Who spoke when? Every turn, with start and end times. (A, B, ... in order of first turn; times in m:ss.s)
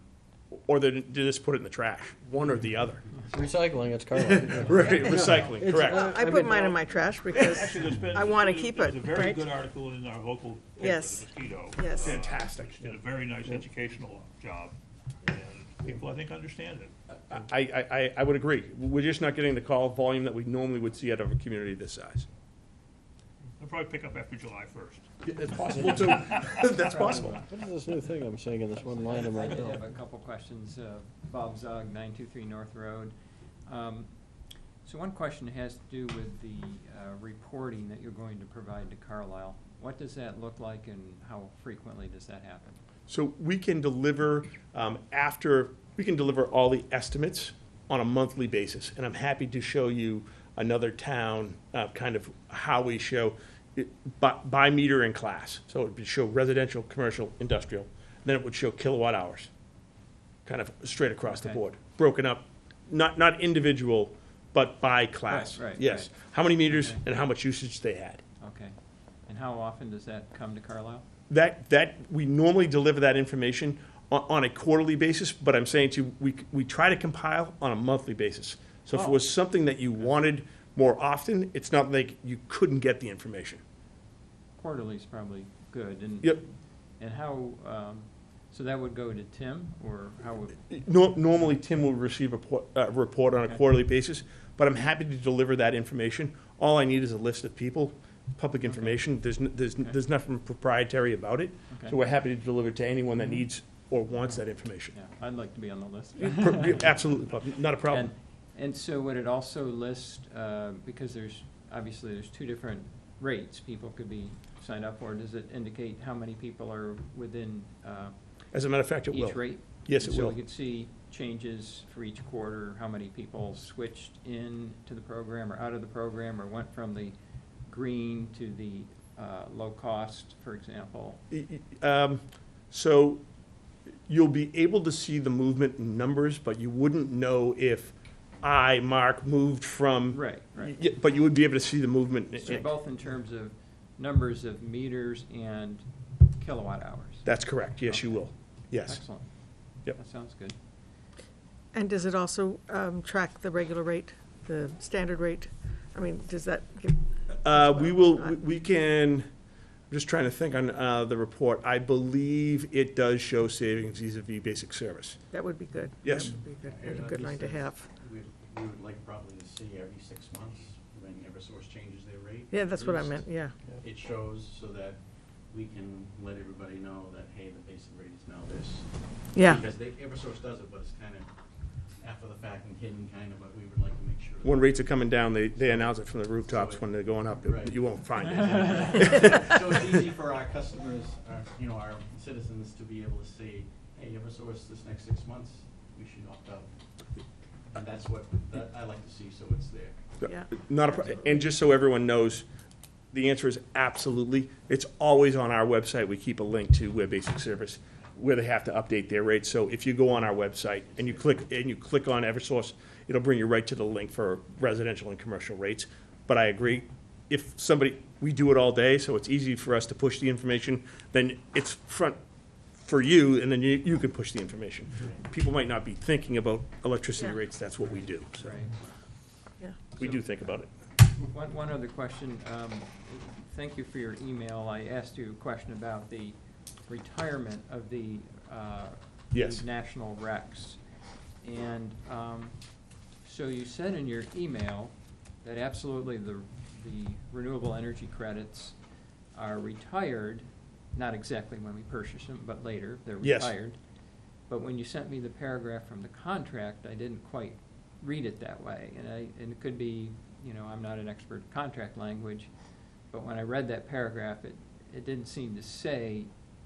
0:00.5-0:03.0 A
0:03.3-0:06.8 B
0:04.5-0:06.1 A
0:05.4-0:06.0 C
0:05.9-0:09.5 D
0:06.6-0:16.9 C
0:10.8-0:12.1 D
0:12.0-0:12.8 A
0:17.3-0:22.3 A
0:23.6-0:25.1 C
0:25.2-0:27.5 A
0:26.2-0:26.5 C
0:27.0-0:29.9 B
0:28.8-0:33.1 E
0:33.7-0:34.1 E
0:34.8-0:42.8 E
0:43.1-0:59.5 A
1:00.4-1:08.2 A
1:01.2-1:01.6 E
1:05.3-1:07.0 E
1:08.4-1:11.0 E
1:11.3-1:23.6 A
1:18.9-1:19.3 E
1:24.6-1:30.6 E
1:30.7-1:45.0 A
1:38.6-1:39.0 E
1:41.7-1:42.0 E
1:44.9-1:47.0 E
1:46.2-1:48.1 A
1:47.9-1:58.1 E
1:58.5-2:00.4 A
1:59.1-2:07.1 E
2:07.7-2:11.2 E
2:11.3-2:13.2 A
2:14.1-2:22.7 A
2:20.1-2:20.8 E
2:22.4-2:29.3 E
2:27.2-2:29.0 A
2:29.8-2:30.6 E
2:31.7-2:38.3 D
2:37.4-2:39.3 A
2:39.9-2:45.2 A
2:45.3-2:47.8 D
2:46.0-2:46.3 A
2:46.6-2:53.3 F
2:52.5-2:53.5 D
2:53.8-3:01.3 F
2:59.3-2:59.6 D
3:02.0-3:04.9 F
3:04.4-3:09.6 A
3:05.5-3:16.7 F
3:17.7-3:20.0 F
3:20.2-3:22.4 A
3:20.2-3:20.5 D
3:23.1-3:42.2 A
3:42.7-3:48.6 A
3:48.3-3:48.8 E
3:50.0-4:00.8 E
3:50.0-3:50.7 A
3:59.3-3:59.6 A
4:01.4-4:02.7 E
4:03.2-4:08.8 E
4:09.3-4:13.8 E
4:13.2-4:13.6 A
4:14.5-4:22.5 E
4:23.1-4:26.3 E